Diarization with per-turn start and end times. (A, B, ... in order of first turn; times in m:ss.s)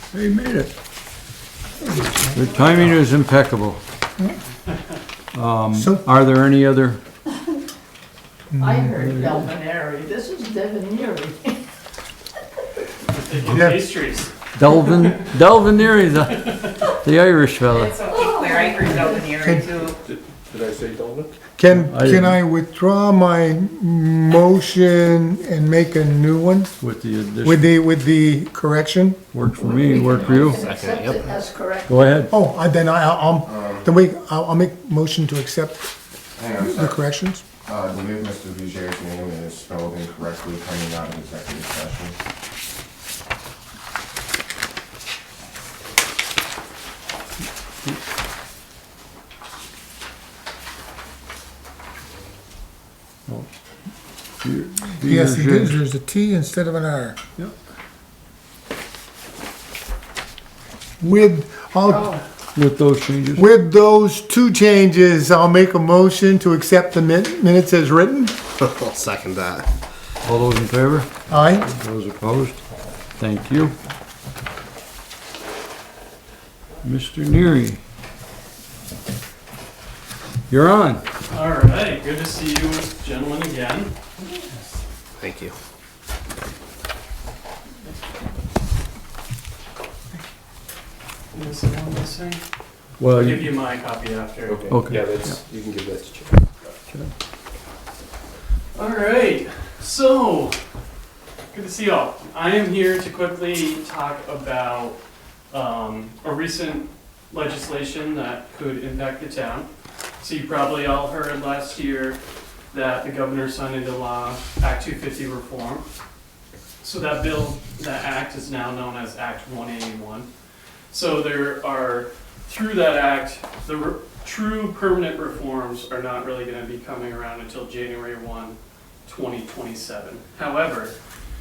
0:00.1-0:00.7 A
0:02.0-0:02.3 B
0:02.3-0:03.8 A
0:05.3-0:07.0 A
0:05.7-0:06.0 B
0:08.5-0:09.1 B
0:08.6-0:11.6 C
0:09.0-0:09.3 A
0:13.1-0:15.1 D
0:13.4-0:13.9 B
0:14.5-0:18.0 A
0:16.3-0:16.8 D
0:17.7-0:20.0 E
0:18.1-0:19.5 C
0:19.3-0:19.7 B
0:20.0-0:21.4 F
0:21.6-0:26.7 B
0:21.8-0:22.4 A
0:26.8-0:27.7 A
0:27.4-0:29.2 B
0:29.3-0:30.6 A
0:29.6-0:32.1 C
0:30.2-0:31.2 G
0:31.9-0:32.3 A
0:32.3-0:35.9 B
0:33.5-0:33.9 H
0:36.4-0:37.0 H
0:36.6-0:37.4 B
0:37.7-0:42.2 H
0:54.4-0:55.8 A
0:55.0-0:57.2 B
1:01.0-1:02.2 B
1:02.6-1:03.4 A
1:03.4-1:08.4 B
1:08.6-1:09.7 G
1:10.2-1:11.1 A
1:11.3-1:11.7 B
1:11.7-1:12.6 A
1:13.2-1:13.8 A
1:16.8-1:17.8 A
1:20.5-1:21.0 A
1:21.3-1:24.0 D
1:25.2-1:25.6 G
1:31.3-1:32.4 D
1:33.0-1:33.5 A
1:33.1-1:34.8 D
1:34.4-1:36.4 F
1:34.7-1:35.0 A
1:38.8-1:40.6 D
1:41.5-1:45.0 D
1:45.5-1:49.7 D
1:50.2-1:52.2 D
1:52.7-1:55.9 D
1:56.8-2:00.3 D
2:00.9-2:11.0 D